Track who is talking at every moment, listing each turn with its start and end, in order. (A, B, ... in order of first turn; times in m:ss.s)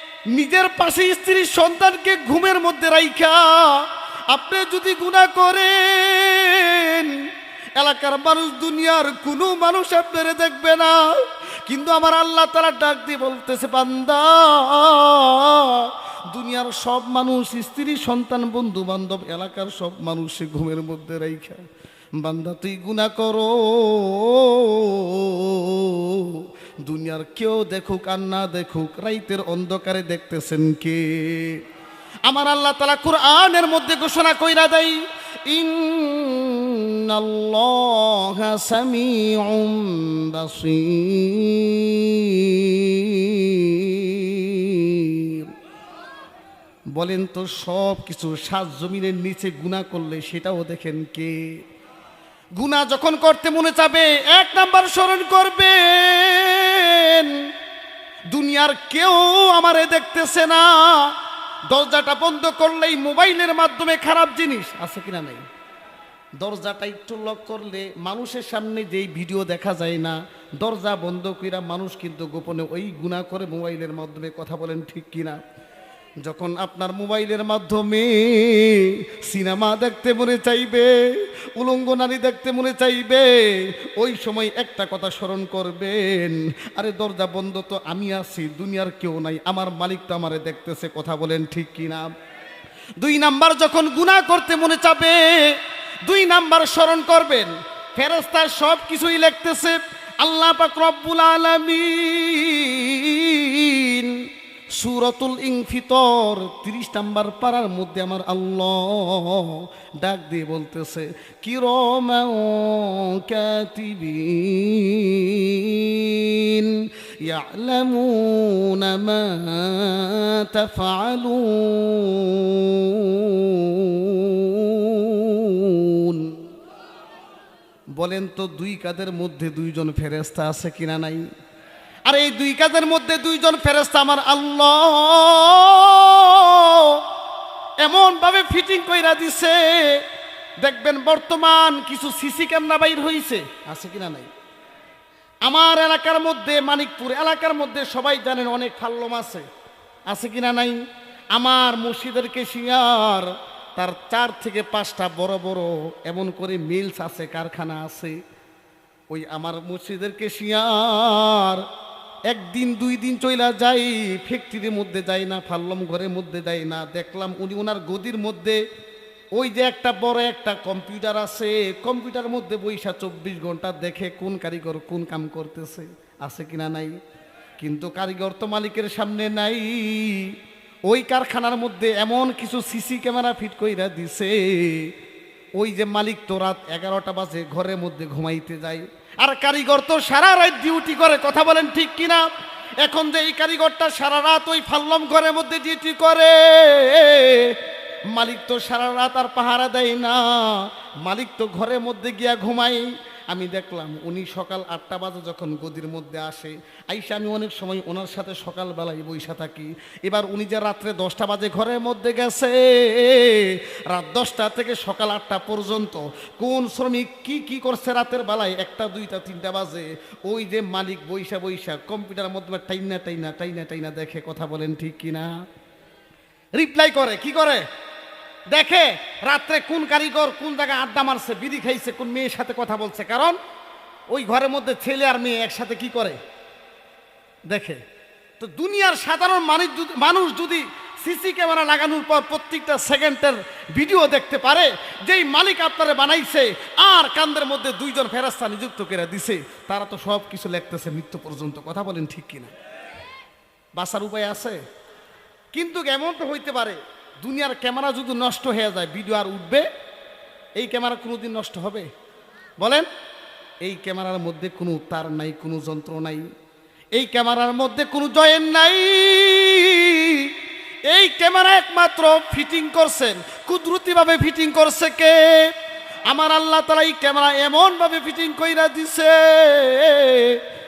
0:00.3-0:07.2 A
0:07.8-0:11.0 A
0:11.7-0:21.6 A
0:22.2-0:31.6 A
0:32.3-0:45.5 A
0:47.0-0:51.5 A
0:52.6-0:57.4 A
0:58.3-1:01.1 A
1:01.7-1:05.4 A
1:06.4-1:15.4 A
1:16.2-1:20.9 A
1:21.6-1:32.1 A
1:33.0-1:44.2 A
1:44.8-2:06.4 A
2:08.0-2:11.2 A
2:12.1-2:17.0 A
2:17.8-2:20.0 A
2:20.6-2:24.3 A
2:25.5-2:29.4 A
2:30.1-2:30.8 A
2:31.3-2:38.2 A
2:39.1-2:41.6 A
2:42.3-2:48.6 A
2:49.4-2:56.9 A
2:57.6-3:00.3 A
3:00.9-3:04.9 A
3:05.6-3:12.2 A
3:12.8-3:17.6 A
3:18.1-3:45.3 A
3:46.6-3:47.6 A
3:48.5-3:53.4 A
3:54.1-3:56.2 A
3:57.5-3:57.8 A
3:58.4-4:12.5 A
4:13.8-4:14.6 A
4:15.5-4:19.7 A
4:20.6-4:21.9 A
4:22.6-4:22.9 A
4:23.6-4:26.2 A
4:27.0-4:30.4 A
4:30.9-4:35.5 A
4:36.1-4:40.4 A